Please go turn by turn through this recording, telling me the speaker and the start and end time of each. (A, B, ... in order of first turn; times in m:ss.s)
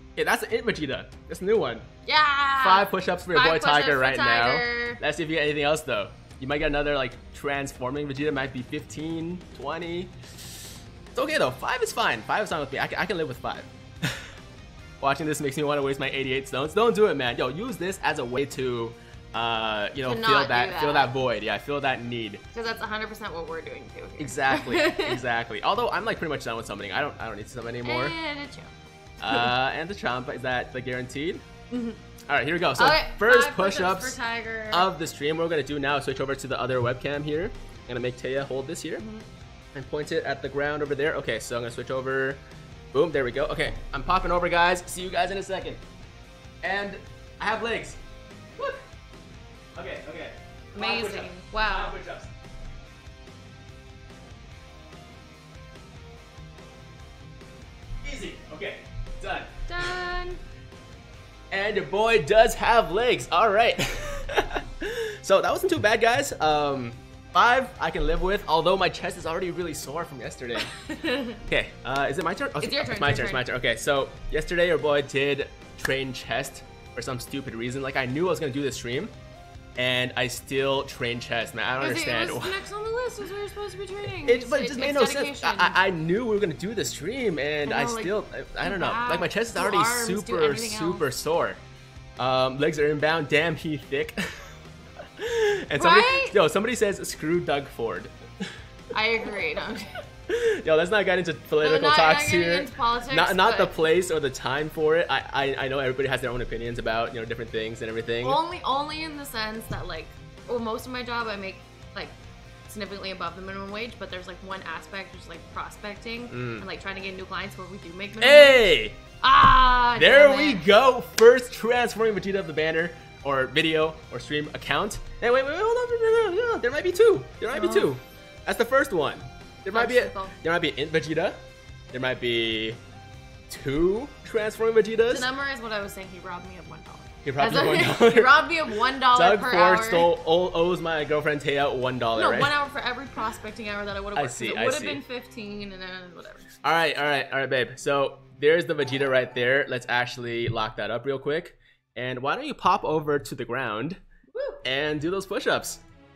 0:00.2-0:01.9 A
0:02.0-0:05.0 B
0:02.6-0:10.2 A
0:11.1-0:14.3 A
0:15.0-0:22.4 A
0:20.0-0:21.1 B
0:22.5-0:25.2 B
0:24.2-0:28.2 A
0:27.8-0:28.8 B
0:29.2-0:31.4 A
0:31.7-0:32.0 B
0:32.3-0:34.2 A
0:32.8-0:34.9 B
0:34.7-0:39.0 A
0:39.0-0:39.2 B
0:39.7-0:42.4 A
0:42.9-0:45.8 A
0:46.6-0:48.0 A
0:49.7-0:52.3 A
0:50.7-0:52.0 B
0:58.0-1:00.0 A
0:59.7-1:00.4 B
1:01.5-1:10.7 A
1:10.6-1:11.4 B
1:11.4-1:19.1 A
1:12.6-1:13.5 B
1:19.8-1:22.6 A
1:21.8-1:25.8 B
1:24.2-1:31.6 A
1:27.6-1:31.1 B
1:32.2-1:34.5 A
1:35.2-1:38.5 A
1:35.8-1:36.4 B
1:38.9-1:40.0 B
1:40.3-1:48.4 A
1:41.6-1:43.8 B
1:48.2-2:00.7 B
1:56.3-1:56.6 A
1:58.2-1:59.0 A
1:59.9-2:11.4 A
2:07.5-2:07.9 B
2:09.7-2:10.4 B
2:11.9-2:12.8 A
2:13.5-2:15.3 A
2:15.1-2:20.1 B
2:17.2-2:22.5 A
2:22.1-2:26.5 B
2:24.1-2:25.0 A
2:26.6-2:34.0 A
2:34.3-2:34.6 B
2:34.6-2:35.8 A